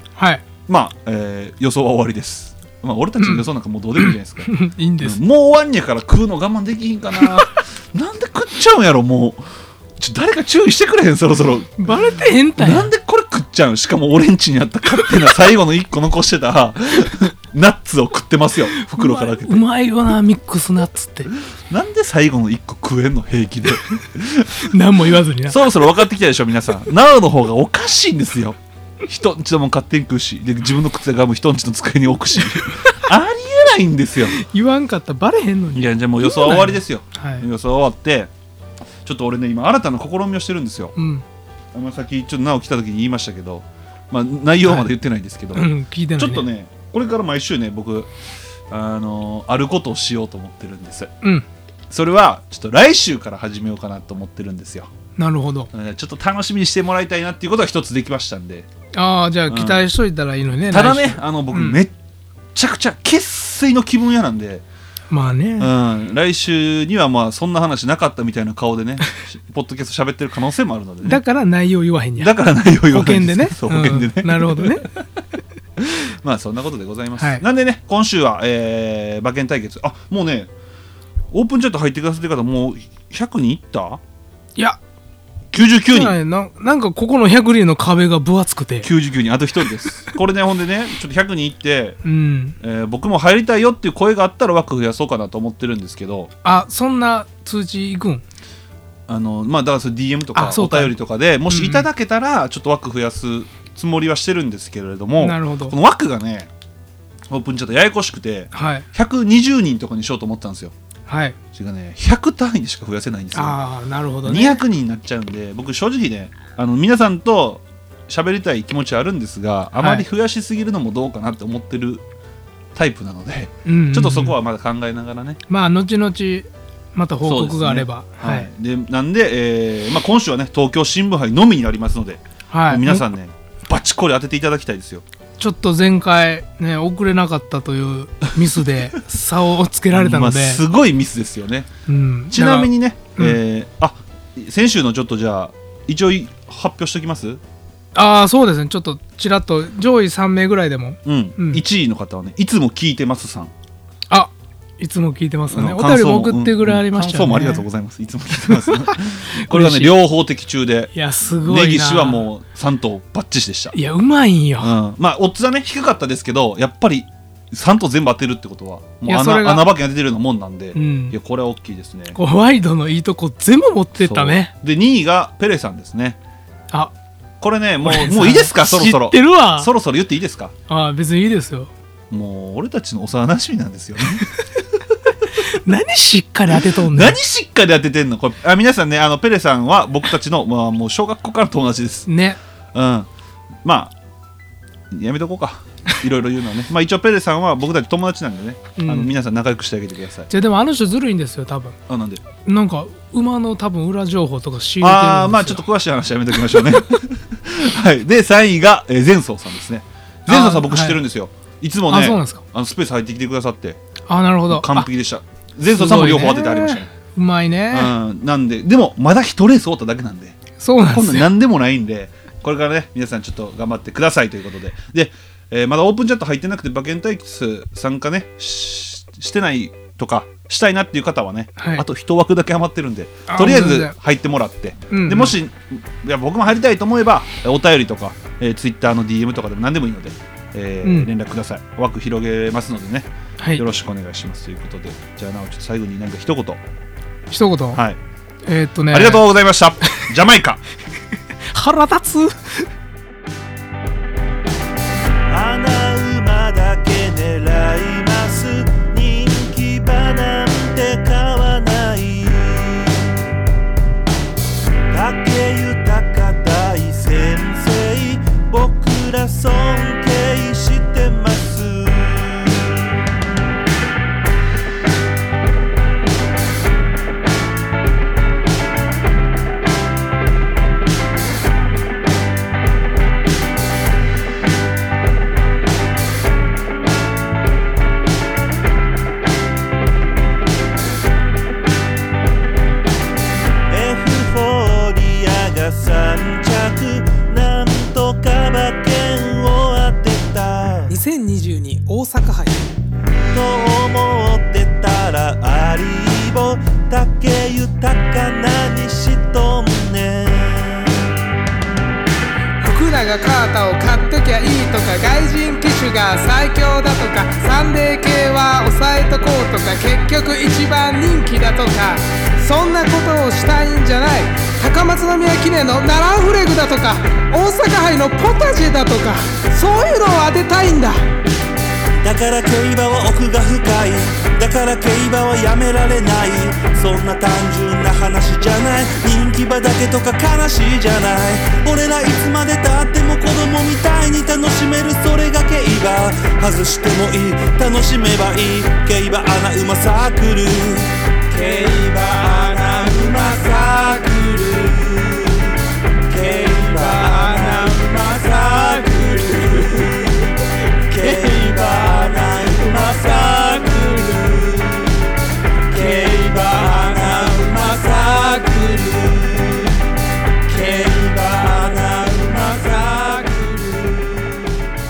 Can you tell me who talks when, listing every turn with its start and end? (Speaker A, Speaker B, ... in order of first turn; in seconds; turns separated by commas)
Speaker A: 0.2-0.4, Speaker B: 0.7-4.5, Speaker A: 3.2-5.2, Speaker B: 5.0-9.4, Speaker B: 10.0-11.8, Speaker A: 11.8-12.9, Speaker B: 12.6-19.6, Speaker A: 18.8-21.3, Speaker B: 21.7-24.5, Speaker A: 24.6-25.7, Speaker B: 25.5-28.6, Speaker B: 29.1-34.3, Speaker A: 32.3-33.1, Speaker A: 34.3-37.5, Speaker B: 35.7-38.3, Speaker B: 39.0-40.9, Speaker A: 41.0-41.2, Speaker B: 41.7-48.1, Speaker A: 45.5-46.5, Speaker B: 48.7-51.1, Speaker B: 51.9-54.9, Speaker A: 55.2-55.7, Speaker B: 55.7-58.6, Speaker A: 58.9-61.8, Speaker B: 59.5-59.8, Speaker B: 60.7-61.9, Speaker B: 62.5-64.6, Speaker A: 65.1-65.7, Speaker B: 65.6-71.2, Speaker A: 71.0-74.9, Speaker B: 72.2-74.8, Speaker B: 75.9-80.5, Speaker A: 77.2-77.4, Speaker B: 81.3-84.0, Speaker B: 85.5-86.1, Speaker A: 85.8-88.9, Speaker B: 88.8-92.0, Speaker A: 92.0-92.5, Speaker B: 92.6-96.3, Speaker A: 96.4-98.2, Speaker B: 99.1-106.5, Speaker A: 100.3-101.0, Speaker A: 101.5-101.9, Speaker A: 105.2-105.8, Speaker B: 107.3-110.7, Speaker A: 108.5-108.8, Speaker A: 111.1-111.3, Speaker B: 111.5-113.6, Speaker A: 113.3-114.6, Speaker B: 114.2-122.0, Speaker A: 119.7-120.0, Speaker B: 122.8-125.4, Speaker A: 123.6-124.4, Speaker A: 125.5-128.5, Speaker B: 127.2-135.0, Speaker A: 132.5-133.0, Speaker A: 135.4-140.6, Speaker B: 139.9-141.7, Speaker A: 141.9-143.4, Speaker B: 142.3-147.4, Speaker A: 147.9-151.6, Speaker B: 151.1-153.5, Speaker A: 154.1-157.7, Speaker B: 155.5-160.9, Speaker A: 158.5-159.9, Speaker A: 160.9-162.3, Speaker B: 161.4-163.7, Speaker A: 163.7-164.8, Speaker B: 164.6-172.2, Speaker A: 169.0-169.7, Speaker A: 170.7-171.2, Speaker A: 172.1-174.5, Speaker B: 174.0-176.2, Speaker B: 177.4-180.5, Speaker A: 177.8-179.7, Speaker A: 180.7-181.7, Speaker B: 182.1-184.2, Speaker A: 184.2-184.4, Speaker A: 185.3-187.2, Speaker B: 186.6-192.1, Speaker A: 192.1-192.4, Speaker B: 192.7-193.1, Speaker B: 193.6-193.9, Speaker B: 194.9-200.3, Speaker A: 198.8-199.1, Speaker A: 200.3-201.8, Speaker B: 201.9-202.2, Speaker A: 202.3-205.6, Speaker B: 204.8-213.8, Speaker A: 206.4-206.7, Speaker A: 210.3-211.0, Speaker A: 211.9-212.4, Speaker A: 214.1-214.9, Speaker B: 214.5-216.8, Speaker A: 215.7-217.9, Speaker B: 217.7-220.3, Speaker A: 220.6-221.3, Speaker B: 220.9-246.6, Speaker A: 231.6-231.8, Speaker A: 233.3-233.9, Speaker A: 234.9-235.3, Speaker A: 240.8-241.1, Speaker A: 247.3-247.8, Speaker A: 248.4-249.2, Speaker B: 248.9-250.6, Speaker A: 251.5-252.5, Speaker C: 255.3-263.3, Speaker C: 264.9-273.1, Speaker C: 293.7-300.9, Speaker A: 300.9-302.7, Speaker C: 303.2-311.1, Speaker A: 312.6-331.0, Speaker C: 332.0-374.7